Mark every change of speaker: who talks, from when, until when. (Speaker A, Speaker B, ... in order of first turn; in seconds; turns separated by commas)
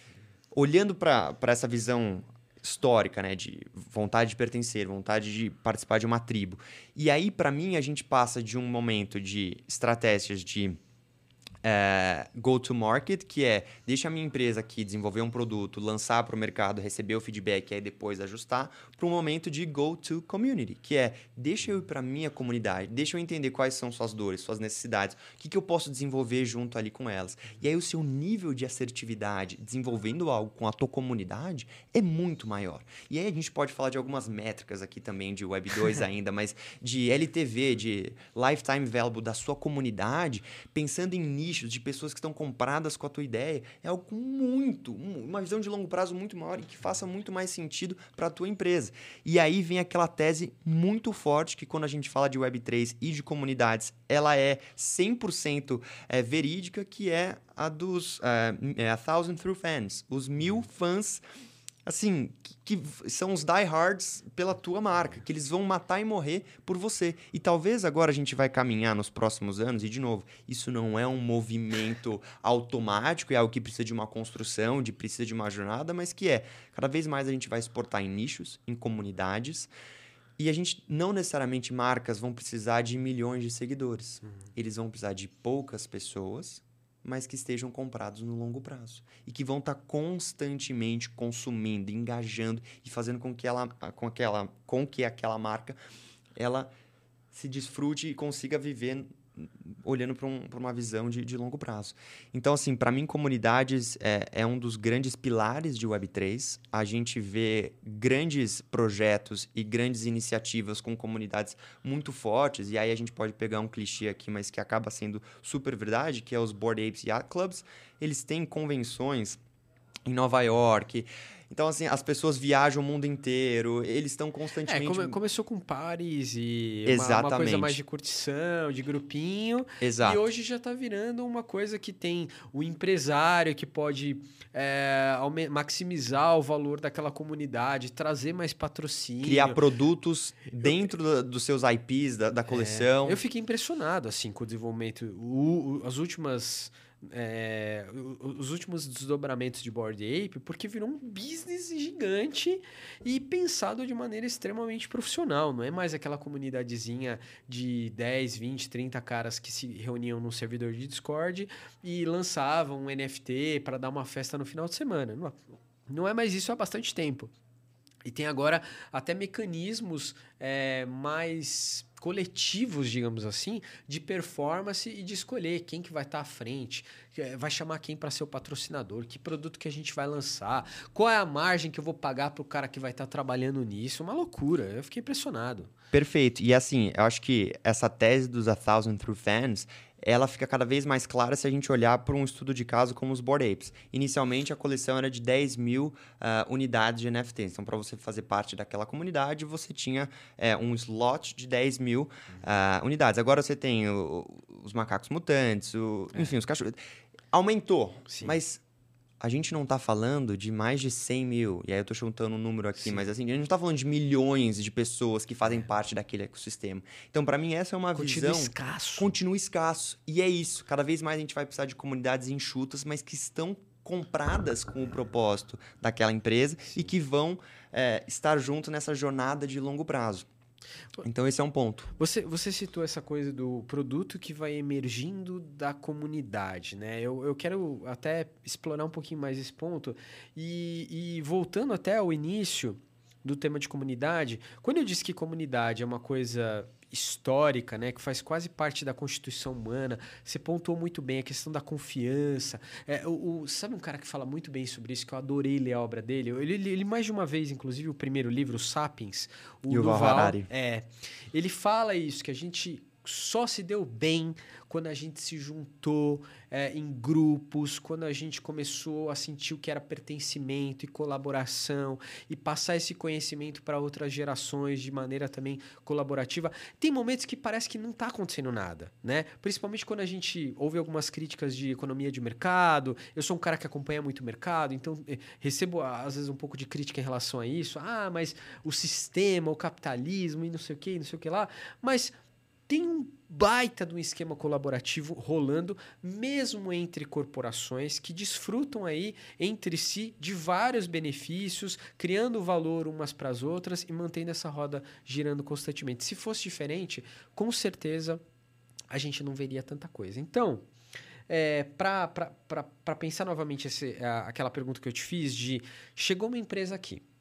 Speaker A: 0.5-10.8, Speaker A: 11.6-61.2, Speaker A: 61.9-79.7, Speaker A: 80.4-95.8, Speaker A: 96.4-96.7, Speaker A: 97.3-119.4, Speaker A: 120.0-125.2, Speaker B: 124.7-139.6, Speaker A: 126.8-127.8, Speaker A: 129.8-130.2, Speaker A: 139.2-143.2, Speaker B: 142.5-167.3, Speaker B: 168.0-185.7, Speaker A: 185.9-206.8, Speaker A: 207.3-208.6, Speaker B: 208.1-208.4, Speaker A: 209.2-230.3, Speaker B: 217.9-219.1, Speaker A: 231.0-231.9, Speaker B: 232.0-292.1, Speaker A: 259.7-260.5, Speaker B: 292.7-308.2, Speaker B: 308.9-310.6, Speaker B: 311.3-317.0